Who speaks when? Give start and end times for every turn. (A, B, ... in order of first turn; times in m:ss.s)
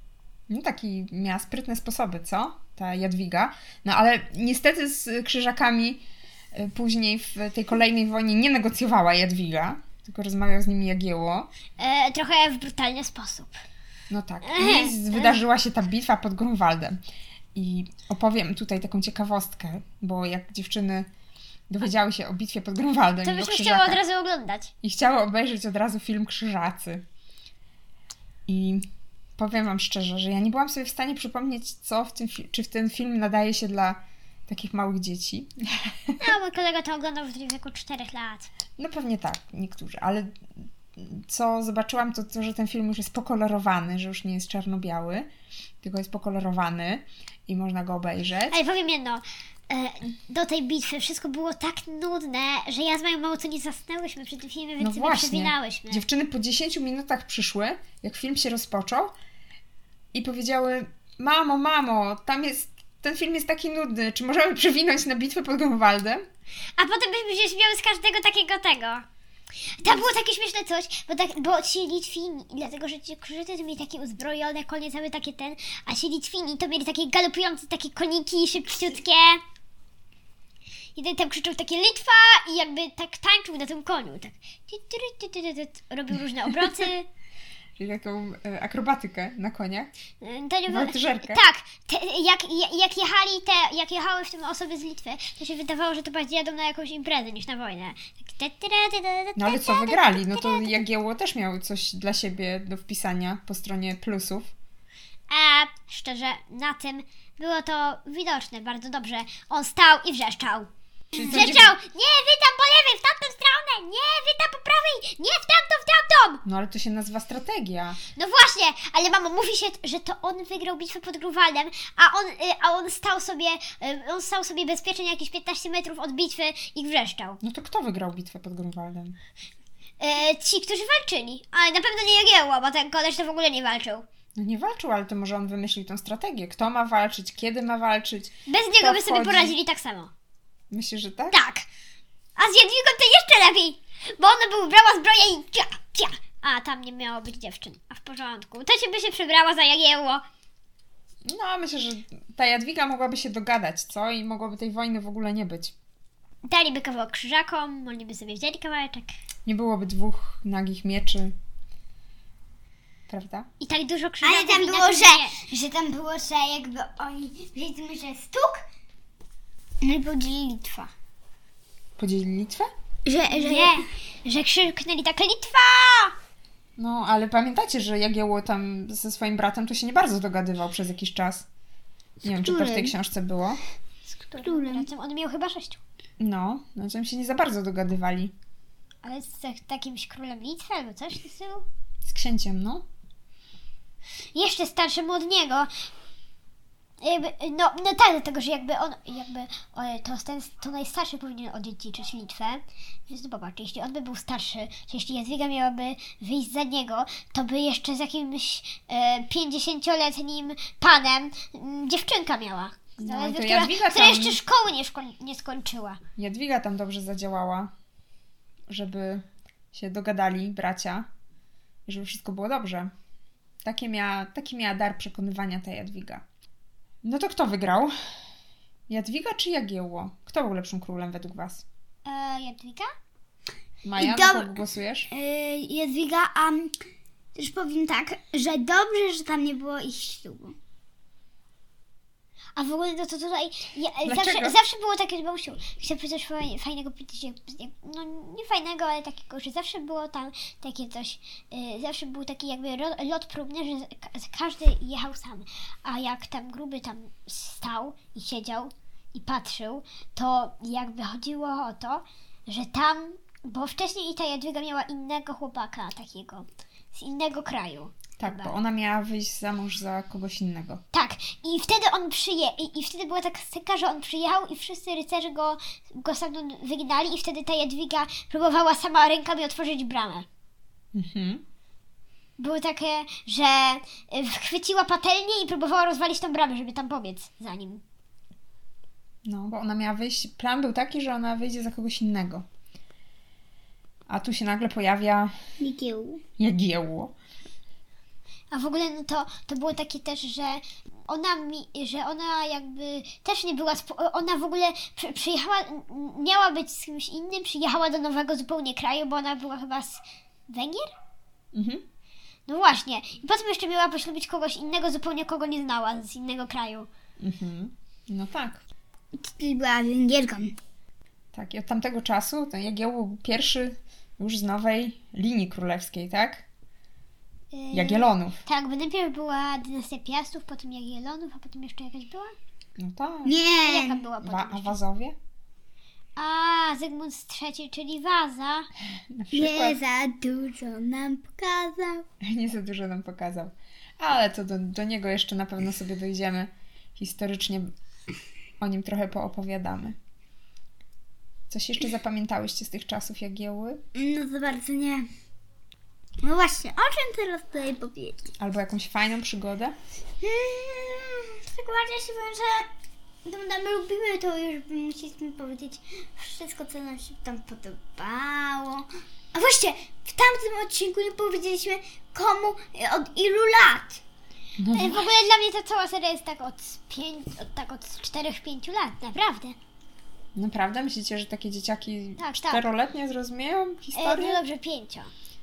0:00.5-0:11.5 A
0:11.8-0:13.6 B
0:14.1-0:17.0 A
0:14.4-0:15.4 B
0:17.6-0:21.1 A
0:21.7-0:24.0 A
0:23.2-0:24.7 B
0:24.8-0:27.0 A
0:28.5-0:28.9 A
0:29.4-0:36.2 A
0:36.2-0:38.5 B
0:38.8-0:45.3 A
0:45.8-0:48.6 A
0:48.5-0:56.1 B
0:54.8-0:59.2 A
1:00.1-1:06.2 A
1:06.8-1:09.0 B
1:09.8-1:19.4 B
1:21.0-1:27.1 B
1:27.8-1:29.9 A
1:30.2-1:40.8 B
1:30.7-1:31.4 A
1:39.4-1:44.5 A
1:45.3-1:50.7 B
1:51.1-1:51.8 A
1:51.3-1:56.4 B
1:56.4-1:58.0 A
1:58.2-2:07.4 B
2:07.4-2:09.2 A
2:10.0-2:14.0 B
2:14.4-2:19.6 A
2:18.5-2:20.1 B
2:20.7-2:21.4 A
2:21.3-2:21.6 B
2:22.4-2:30.2 B
2:31.2-2:35.8 A
2:36.5-2:39.1 B
2:39.5-2:41.3 A
2:43.1-2:43.5 A
2:43.6-2:45.4 B
2:44.2-2:48.6 C
2:49.8-2:50.9 C
2:52.0-2:52.7 A
2:53.1-2:53.8 C
2:53.3-2:56.2 B
2:56.8-3:01.5 A
3:02.2-3:03.6 A
3:02.2-3:03.0 C
3:04.1-3:05.8 B
3:04.4-3:04.9 C
3:06.2-3:08.3 A
3:09.0-3:11.7 B
3:12.0-3:12.8 A
3:14.4-3:15.7 B
3:17.0-3:36.0 B
3:33.0-3:34.4 A
3:36.2-3:37.7 A
3:38.7-3:41.1 A
3:41.9-3:42.9 A
3:43.6-3:46.2 A
3:47.0-3:47.9 A
3:48.9-3:51.6 A
3:52.0-3:52.9 B
3:53.8-3:55.1 A
3:54.0-3:54.6 C
3:55.1-3:56.7 C
3:57.4-4:00.6 C
4:02.6-4:28.5 B
4:04.0-4:04.6 A
4:28.2-4:30.8 A
4:30.9-4:40.3 B
4:40.9-4:41.4 A
4:42.4-4:47.8 B
4:49.3-4:52.4 A
4:54.1-4:55.3 A
4:55.6-4:56.2 C
4:56.4-4:57.1 A
4:58.5-5:10.9 B
5:11.5-5:11.8 A
5:12.5-5:16.9 B
5:17.2-5:18.6 A
5:19.2-5:20.6 C
5:21.3-5:26.4 A
5:27.5-5:32.3 B
5:27.7-5:28.4 A
5:32.8-5:33.4 A
5:33.2-5:34.0 C
5:33.6-5:34.8 B
5:34.2-5:35.2 A
5:36.2-5:38.7 B
5:39.1-5:39.8 A
5:39.3-5:42.0 C
5:42.2-5:47.7 A
5:48.6-5:50.0 A
5:51.5-5:53.8 A
5:54.0-5:55.1 C
5:56.2-5:58.3 C
5:58.4-5:59.8 A
6:00.2-6:02.7 C
6:03.2-6:14.0 C
6:14.6-6:15.1 A
6:14.7-6:19.6 B
6:20.4-6:24.4 A
6:22.2-6:22.7 B
6:24.0-6:25.1 B